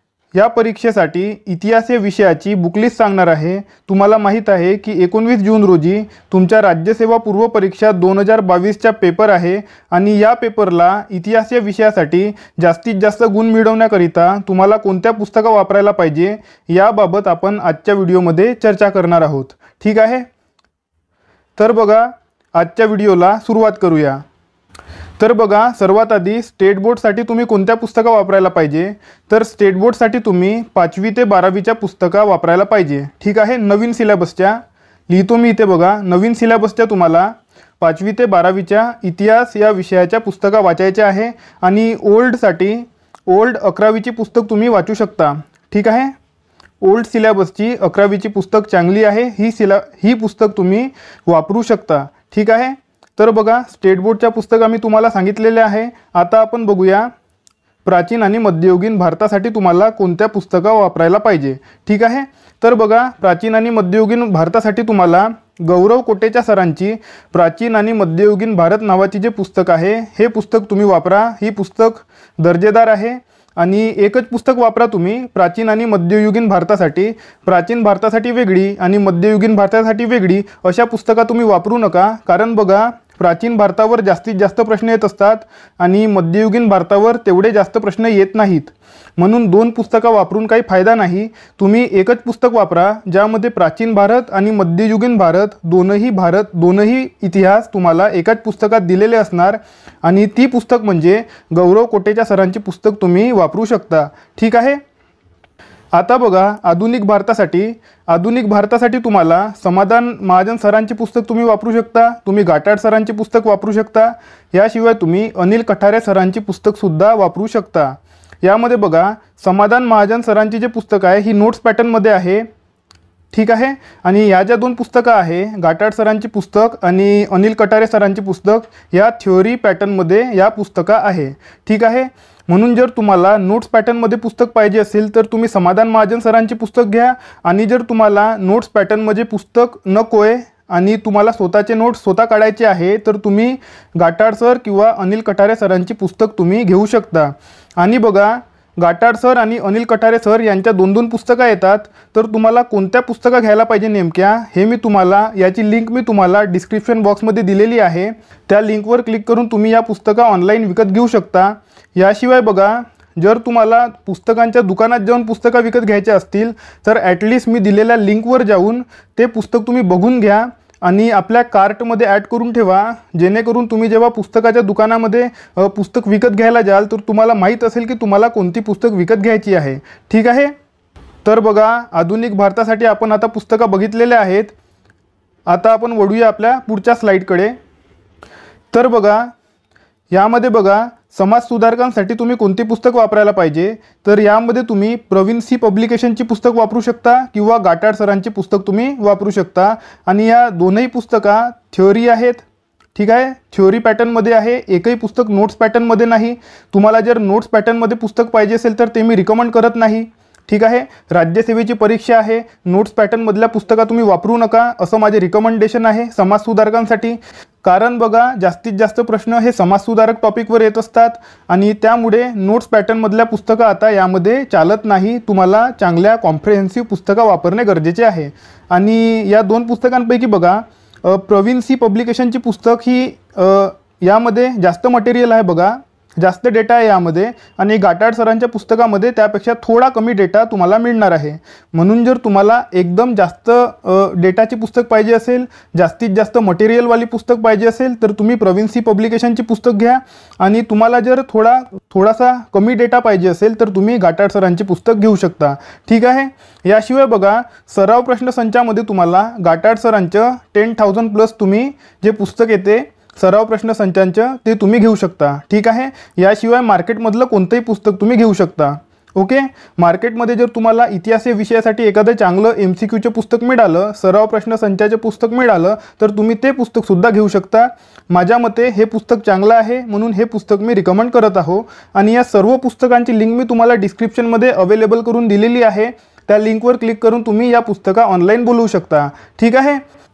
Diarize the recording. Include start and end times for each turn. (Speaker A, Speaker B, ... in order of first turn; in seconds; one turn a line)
Speaker A: 0.3-20.3
Speaker A: 21.6-24.2
Speaker A: 25.2-46.1
Speaker A: 46.8-57.1
Speaker A: 57.9-104.8
Speaker A: 105.9-122.5
Speaker A: 123.3-180.5
Speaker A: 181.2-184.5
Speaker A: 185.5-187.6
Speaker A: 188.7-189.3
Speaker A: 190.1-289.8